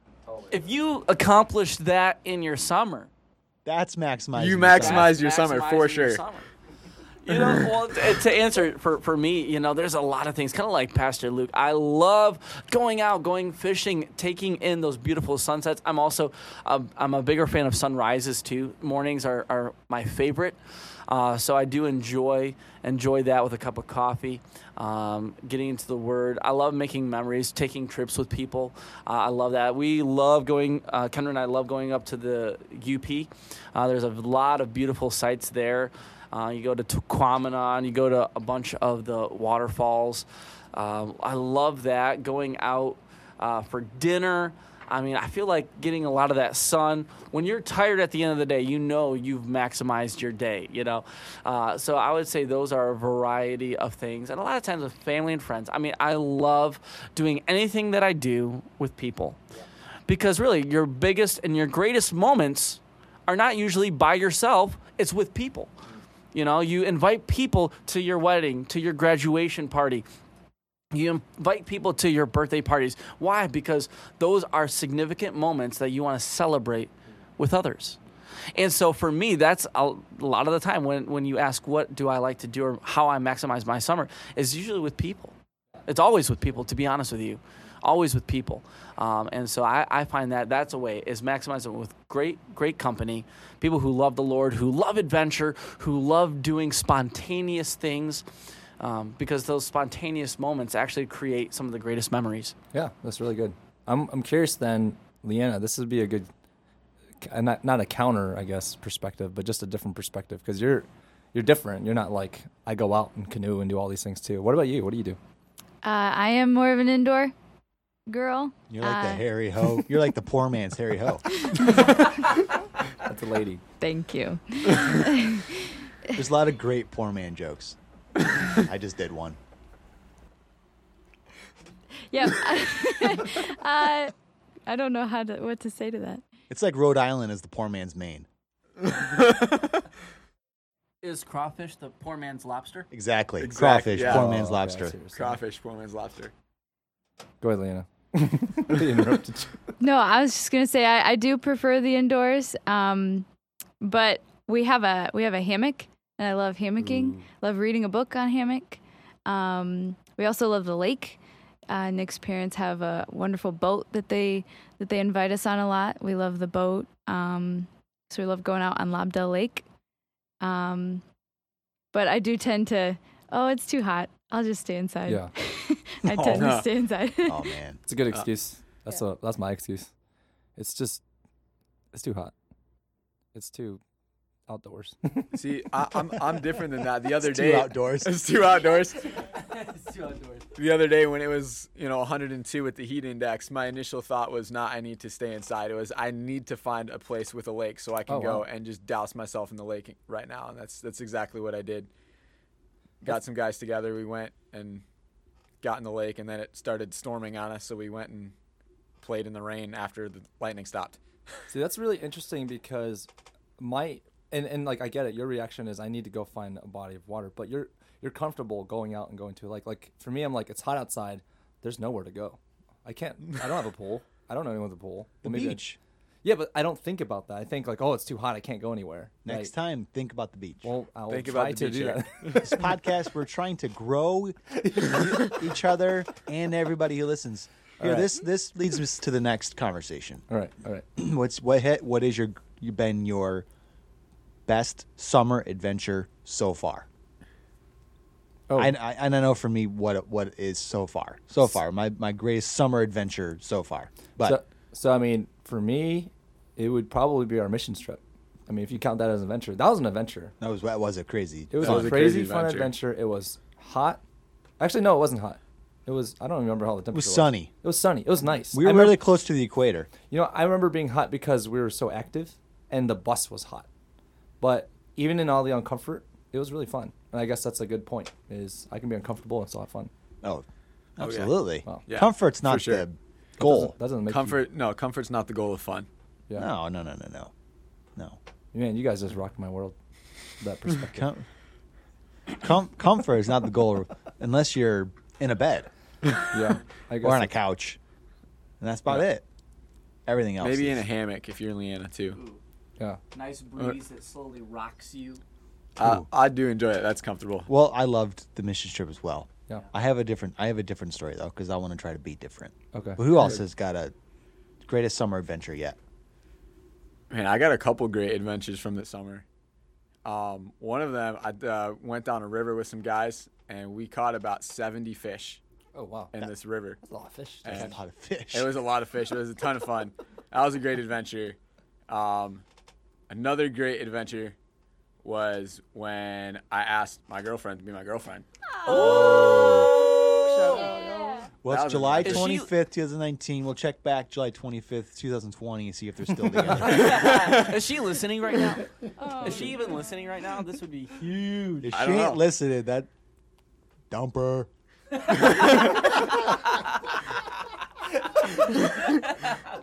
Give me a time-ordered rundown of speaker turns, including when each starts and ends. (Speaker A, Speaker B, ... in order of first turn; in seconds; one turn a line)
Speaker A: 0.3-0.6
Speaker B: 0.5-3.1
Speaker C: 3.6-5.1
Speaker D: 4.3-6.2
Speaker B: 4.8-6.5
Speaker B: 7.2-59.4
Speaker D: 7.3-7.6
Speaker B: 60.1-65.7
Speaker B: 66.3-70.0
Speaker B: 70.9-78.0
Speaker B: 78.5-85.3
Speaker B: 85.8-98.2
Speaker B: 98.8-102.5
Speaker A: 102.7-106.3
Speaker A: 107.2-115.2
Speaker E: 115.8-117.3
Speaker E: 118.1-119.2
Speaker C: 118.7-121.3
Speaker E: 121.3-122.4
Speaker A: 123.0-123.6
Speaker E: 123.8-125.9
Speaker C: 126.1-127.8
Speaker C: 128.5-129.4
Speaker E: 132.1-134.1
Speaker E: 134.7-136.2
Speaker C: 136.5-138.3
Speaker D: 138.8-139.8
Speaker B: 141.0-142.9
Speaker C: 142.9-144.9
Speaker D: 143.4-144.3
Speaker A: 143.9-145.4
Speaker D: 145.1-146.3
Speaker A: 147.4-149.7
Speaker E: 149.8-153.2
Speaker E: 153.8-169.6
Speaker D: 156.8-157.2
Speaker E: 170.4-171.0
Speaker E: 171.9-177.5
Speaker C: 176.1-176.5
Speaker D: 176.3-176.7
Speaker C: 177.3-177.8
Speaker A: 177.8-179.9
Speaker A: 180.6-181.0
Speaker A: 181.9-182.3
Speaker A: 183.3-183.8
Speaker A: 184.5-185.4
Speaker D: 185.3-189.1
Speaker C: 187.2-188.1
Speaker B: 189.3-190.5
Speaker D: 190.5-201.9
Speaker A: 198.1-198.4
Speaker D: 203.0-204.8
Speaker D: 205.6-208.3
Speaker D: 209.0-211.0
Speaker A: 211.5-225.6
Speaker C: 225.2-225.8
Speaker A: 226.2-229.5
Speaker C: 229.2-230.7
Speaker A: 230.6-232.6
Speaker D: 231.1-232.4
Speaker C: 232.3-240.2
Speaker A: 237.8-238.1
Speaker A: 240.3-240.8
Speaker C: 241.0-243.4
Speaker C: 244.5-246.9
Speaker C: 248.5-254.4
Speaker A: 254.2-260.3
Speaker C: 260.4-262.1
Speaker A: 261.5-264.0
Speaker D: 261.6-262.7
Speaker A: 264.6-269.0
Speaker C: 266.9-267.5
Speaker C: 268.5-269.9
Speaker A: 270.1-273.7
Speaker A: 274.4-279.9
Speaker C: 281.0-283.7
Speaker D: 281.0-281.3
Speaker D: 281.9-282.8
Speaker A: 283.4-284.4
Speaker D: 284.1-285.9
Speaker C: 286.4-287.3
Speaker A: 288.5-289.7
Speaker A: 290.4-291.1
Speaker C: 290.9-291.2
Speaker C: 292.4-295.7
Speaker A: 296.3-297.3
Speaker C: 297.0-297.8
Speaker C: 298.6-299.2
Speaker C: 300.1-300.8
Speaker D: 300.4-302.2
Speaker B: 302.1-302.4
Speaker B: 303.1-305.2
Speaker D: 305.8-307.5
Speaker C: 305.8-306.1
Speaker C: 307.5-313.9
Speaker A: 312.7-313.4
Speaker C: 314.6-315.8
Speaker D: 317.1-319.2
Speaker D: 320.0-325.4
Speaker A: 325.7-326.3
Speaker D: 326.1-326.8
Speaker A: 326.8-327.7
Speaker D: 327.4-327.8
Speaker C: 327.5-328.6
Speaker D: 328.3-331.4
Speaker D: 331.9-332.4
Speaker D: 333.1-334.4
Speaker D: 335.0-338.2
Speaker E: 338.6-341.3
Speaker B: 338.6-340.7
Speaker C: 338.7-339.8
Speaker A: 340.2-341.2
Speaker C: 341.4-347.1
Speaker D: 341.5-342.3
Speaker B: 342.0-342.5
Speaker B: 346.5-348.6
Speaker D: 346.9-347.4
Speaker E: 348.4-350.0
Speaker B: 349.2-351.1
Speaker D: 351.0-352.2
Speaker C: 351.6-352.9
Speaker C: 353.9-354.5
Speaker D: 355.4-355.9